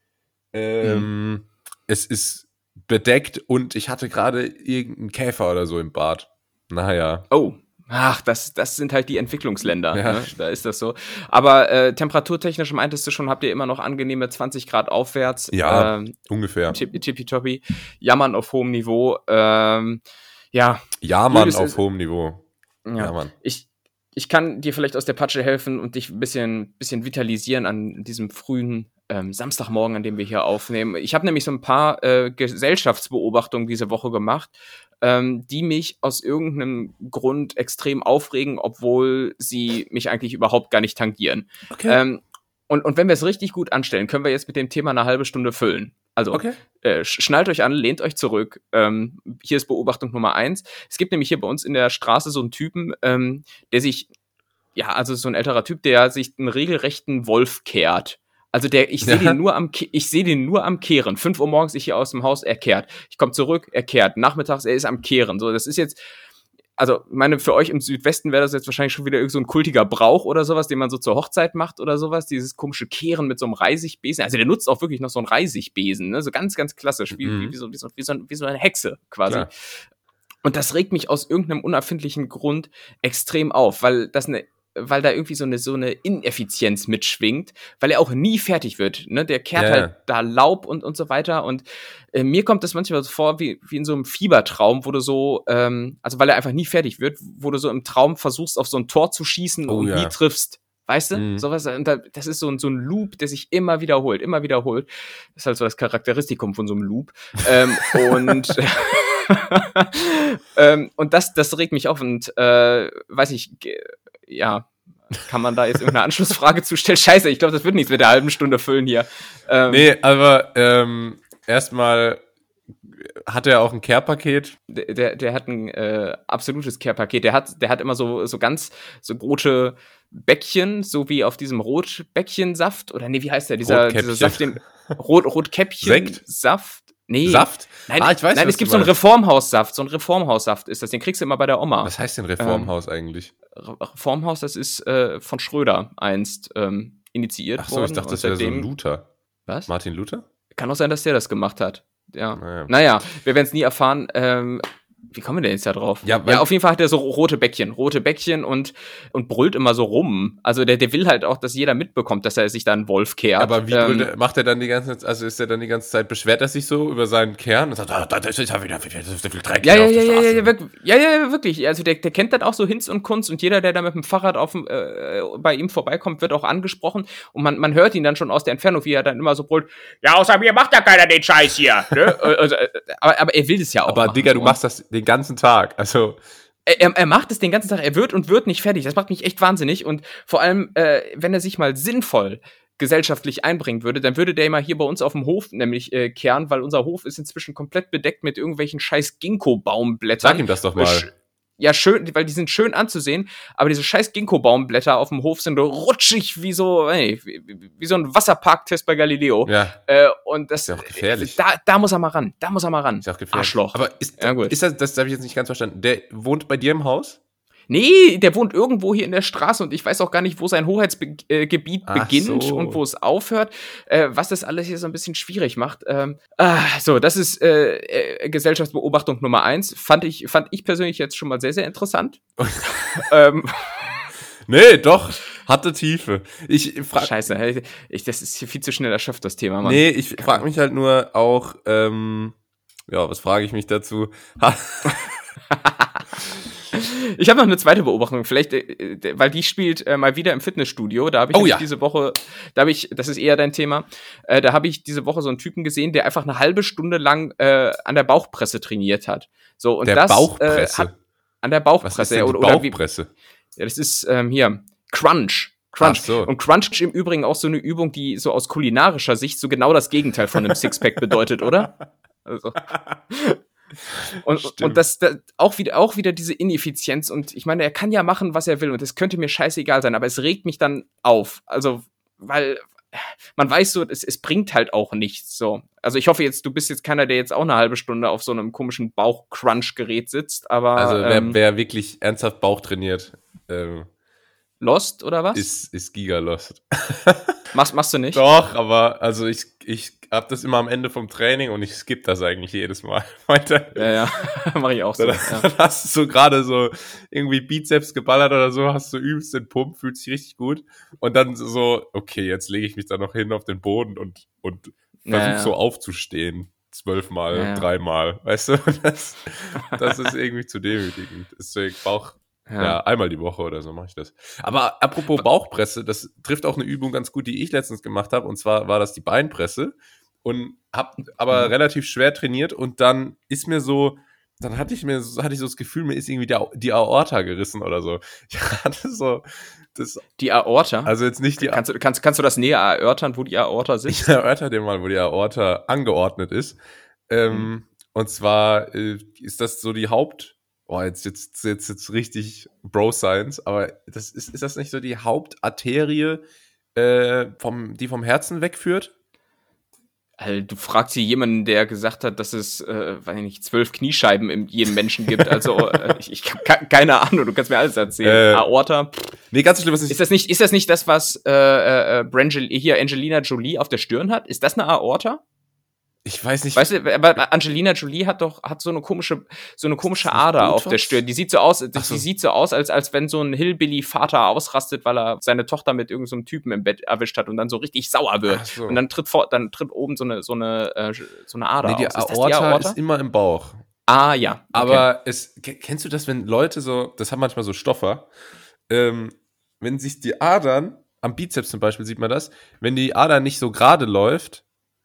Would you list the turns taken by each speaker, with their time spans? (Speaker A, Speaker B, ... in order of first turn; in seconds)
Speaker A: 0.5-7.2, 9.9-10.3, 15.5-16.8, 21.0-22.4, 23.0-23.3, 41.7-42.0, 46.3-46.6, 59.0-59.4, 77.2-77.5, 89.5-89.9, 99.7-100.2, 101.1-101.5, 119.7-122.2, 122.9-124.6, 133.6-134.9, 135.8-136.2, 137.2-138.9, 141.8-143.3, 147.6-149.1, 149.7-150.2, 152.4-152.7, 156.0-156.5, 163.4-170.5, 183.9-186.2, 200.2-201.1, 209.4-209.8, 210.7-211.4, 213.0-217.2, 221.9-222.8, 232.4-233.1, 234.5-237.1, 239.6-242.3, 242.9-245.1, 251.3-251.7, 259.9-261.0, 261.8-263.1, 265.8-266.3, 274.1-274.8, 290.8-293.9, 295.3-297.4, 298.1-304.0, 305.0-340.0, 340.9-341.6, 343.9-346.6, 347.1-356.2, 356.8-358.9, 365.4-365.9, 368.0-368.5, 369.3-370.0, 376.1-376.7, 380.0-381.0, 381.8-382.1, 388.3-388.8, 391.6-393.6, 394.5-398.1, 398.7-404.4
Speaker B: 0.8-1.1, 7.3-16.2, 16.7-20.0, 20.5-21.8, 22.9-54.1, 54.8-66.0, 66.8-79.5, 80.4-119.9, 124.7-142.7, 143.6-148.7, 150.5-164.1, 169.6-184.6, 186.7-214.6, 217.7-232.2, 232.9-234.0, 237.0-240.4, 245.5-246.0, 246.7-260.9, 261.4-262.8, 263.6-271.7, 272.2-273.4, 274.2-291.4, 294.6-295.5, 297.5-298.2, 303.8-305.5, 315.1-315.6, 317.3-317.7, 322.5-322.8, 340.2-344.0, 360.2-368.9, 369.9-375.2, 376.6-392.8, 393.9-394.9